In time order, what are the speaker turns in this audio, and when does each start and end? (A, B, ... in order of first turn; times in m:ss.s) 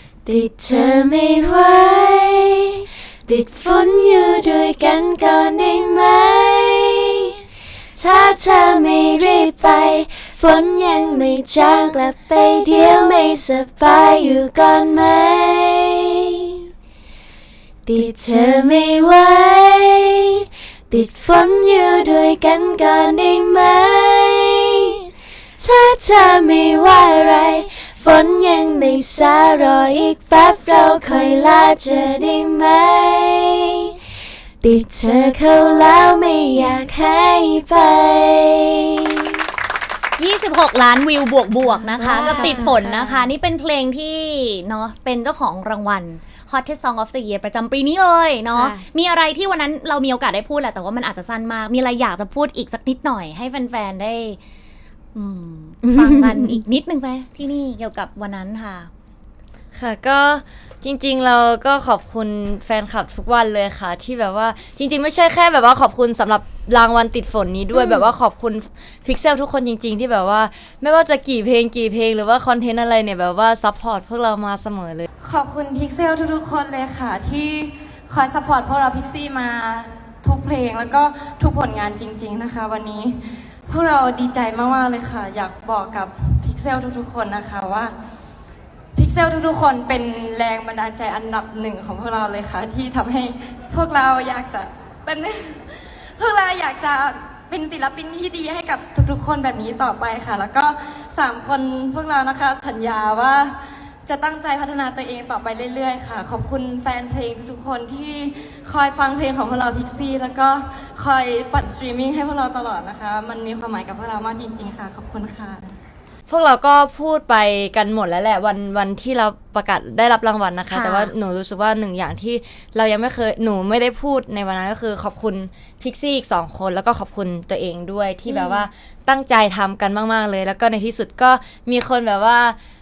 0:00.3-0:07.4 A
0:08.0-0:16.6 A
0:17.8-0:25.1 A
0:25.6-0:34.0 A
0:34.6-0:39.3 A
0:40.2-0:54.4 B
0:42.0-0:43.2 A
0:42.1-0:42.7 C
0:55.2-0:58.9 B
0:59.8-1:15.1 D
1:15.2-1:27.9 C
1:29.0-1:43.6 C
1:44.1-1:55.7 C
1:56.3-2:12.6 D
2:00.7-2:01.1 B
2:08.3-2:08.6 B